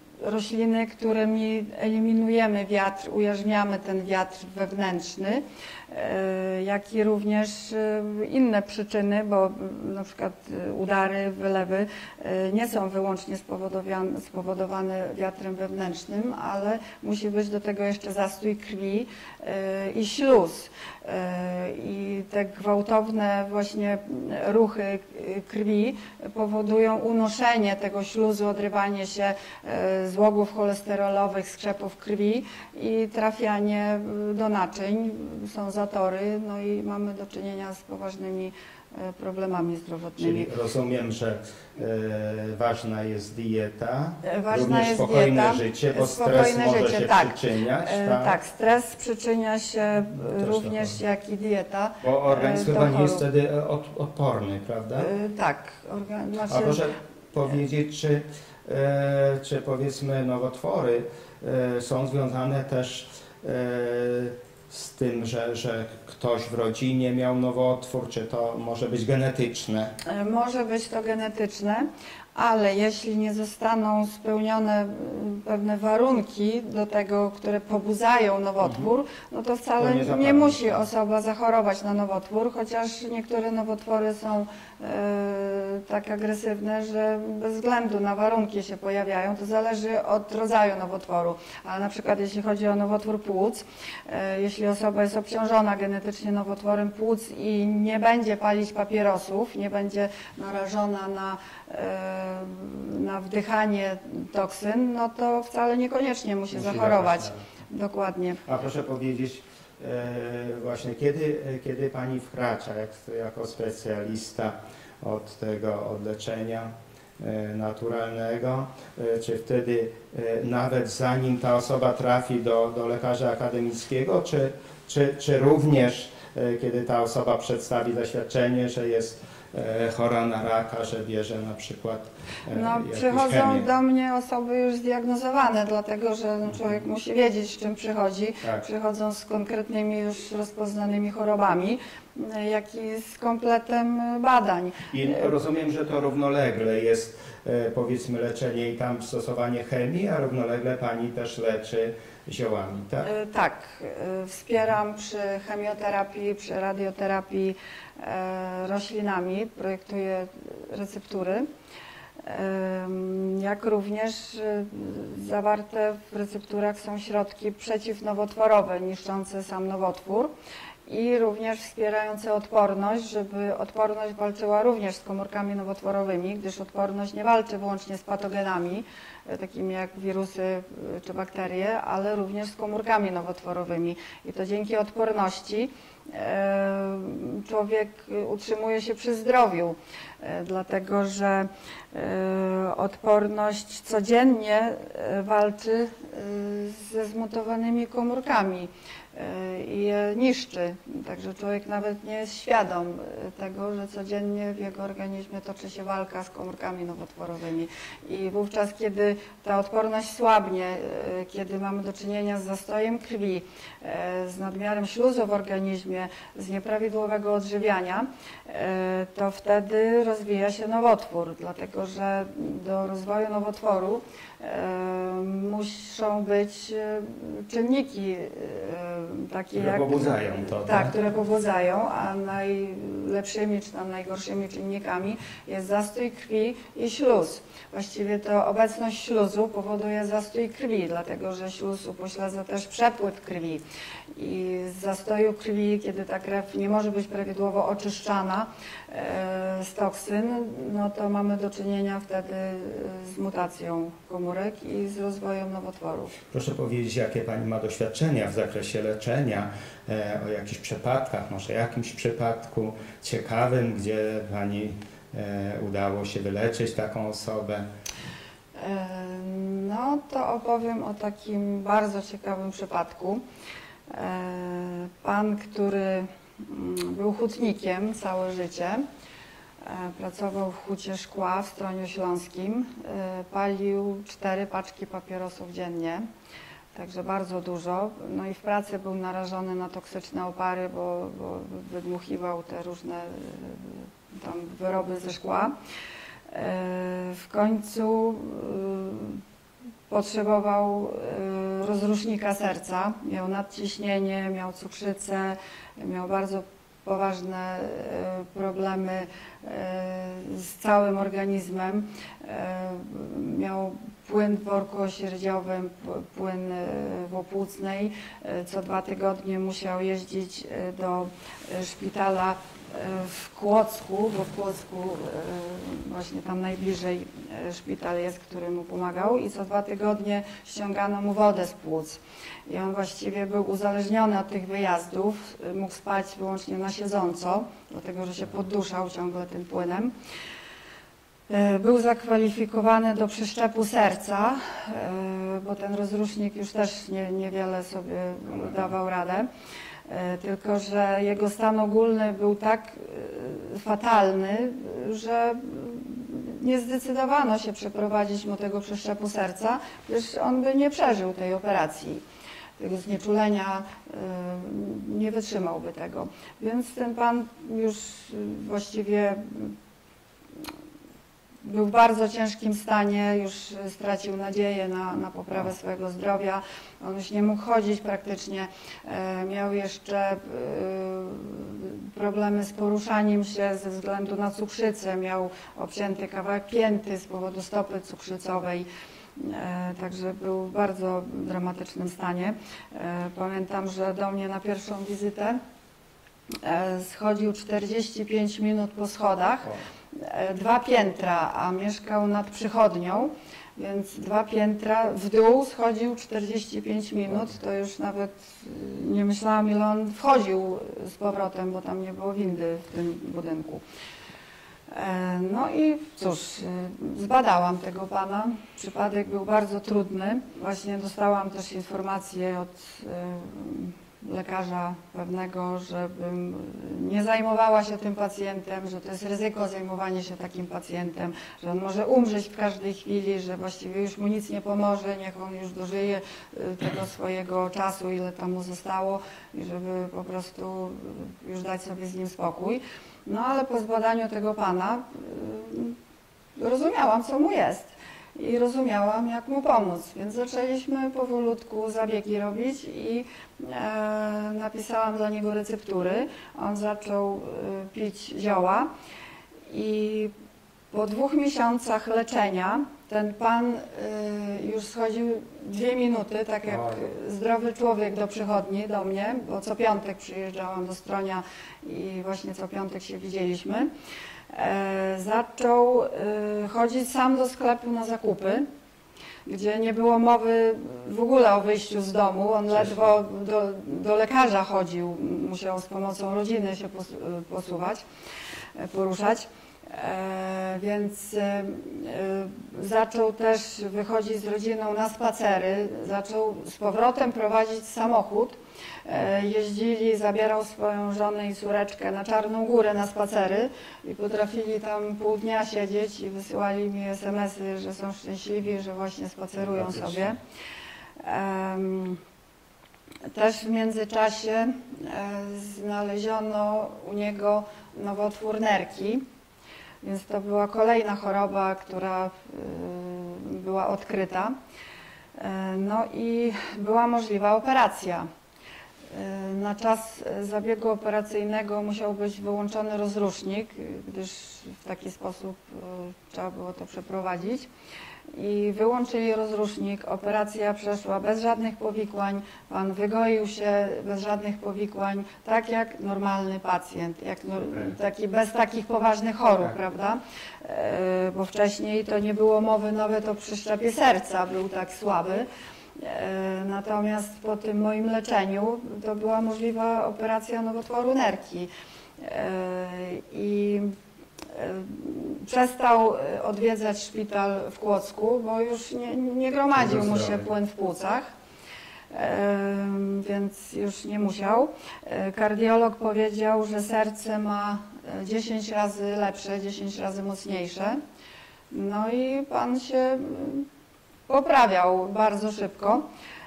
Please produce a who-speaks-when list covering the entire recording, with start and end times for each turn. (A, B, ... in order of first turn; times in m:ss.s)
0:00.2-0:40.5 A
0:40.2-0:48.4 B
0:44.2-0:53.2 A
0:50.3-0:51.0 B
0:52.0-0:55.1 B
0:55.0-0:56.9 A
0:56.5-1:09.9 B
1:10.0-1:48.4 A
1:19.8-1:20.8 B
1:46.5-1:47.4 B
1:48.4-2:13.7 B
2:12.5-2:25.3 A
2:24.9-2:33.1 B
2:33.0-2:41.4 A
2:42.2-2:50.3 A
2:50.9-4:03.6 A
3:49.5-3:50.9 B
4:04.1-4:16.2 A
4:16.3-4:27.7 B
4:28.6-4:33.2 A
4:33.9-4:38.8 A
4:39.6-4:46.1 A
4:46.7-4:55.5 A
4:56.3-4:59.2 A
4:59.9-5:39.9 A
5:41.3-5:49.3 A
5:49.9-6:02.0 A
6:02.6-6:09.6 A
6:11.4-6:35.4 A
6:36.4-6:53.6 A
6:54.7-7:25.8 A
7:26.4-7:38.7 A
7:39.5-7:40.1 A
7:40.7-7:53.7 A
7:46.5-7:46.8 B
7:54.3-7:58.4 A
7:59.2-8:07.8 A
8:08.6-8:30.2 A
8:29.5-8:30.0 B
8:31.0-8:32.0 A
8:33.1-8:39.0 A
8:39.8-8:44.3 A
8:45.2-8:48.1 A
8:48.9-8:57.5 A
8:58.1-9:23.7 A
9:24.3-9:31.1 A
9:29.6-9:30.2 B
9:31.9-9:40.8 A
9:41.5-9:43.5 A
9:44.1-9:45.8 A